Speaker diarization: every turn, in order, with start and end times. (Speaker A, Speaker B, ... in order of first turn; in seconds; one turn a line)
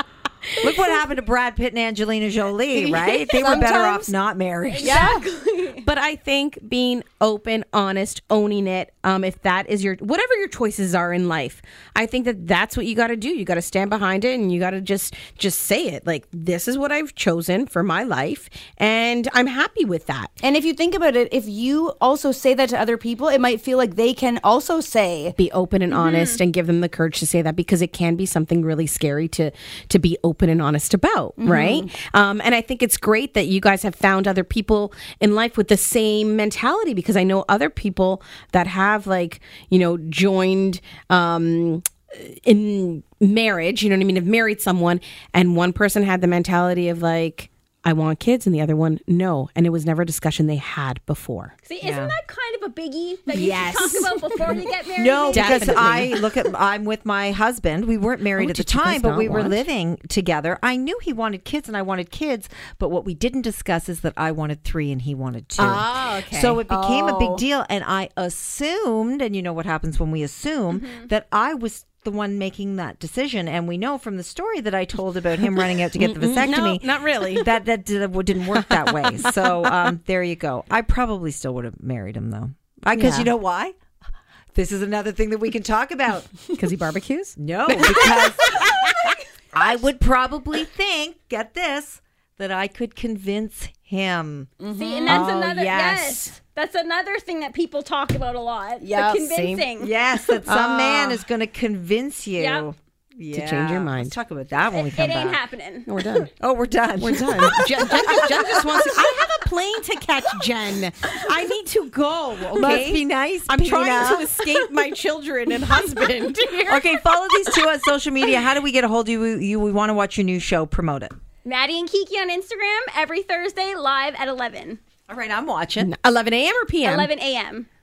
Speaker A: 0.6-5.1
Speaker B: 3.3-4.1
Speaker C: 4.7-5.8
Speaker B: 4.8-5.3
Speaker D: 5.8-20.3
Speaker B: 20.4-25.4
Speaker D: 25.4-51.5
Speaker C: 25.9-26.4
Speaker B: 31.4-31.9
Speaker C: 51.6-56.0
Speaker A: 51.8-52.1
Speaker D: 53.3-54.4
Speaker A: 55.0-83.8
Speaker D: 55.3-56.2
Speaker D: 58.4-59.6
Speaker D: 65.6-66.6
Speaker B: 66.7-67.4
Speaker C: 70.8-71.0
Speaker D: 75.9-77.5
Speaker D: 78.8-79.7
Speaker D: 82.9-83.3
Speaker A: 84.5-86.3
Speaker D: 86.5-88.7
Speaker A: 87.4-88.6
Speaker A: 89.5-94.5
Speaker B: 94.6-95.2
Speaker C: 94.7-99.9
Speaker D: 95.0-96.3
Speaker B: 98.8-99.3
Speaker D: 99.3-99.6
Speaker A: 99.8-105.4
Speaker D: 100.4-101.2
Speaker C: 102.4-102.7
Speaker D: 103.3-104.1
Speaker C: 104.7-105.9
Speaker D: 105.8-106.3
Speaker A: 106.4-108.9
Speaker D: 107.0-116.9
Speaker A: 112.5-114.5
Speaker A: 116.7-121.1
Speaker C: 121.4-124.8
Speaker A: 125.1-125.9
Speaker D: 125.8-127.1
Speaker C: 126.8-127.7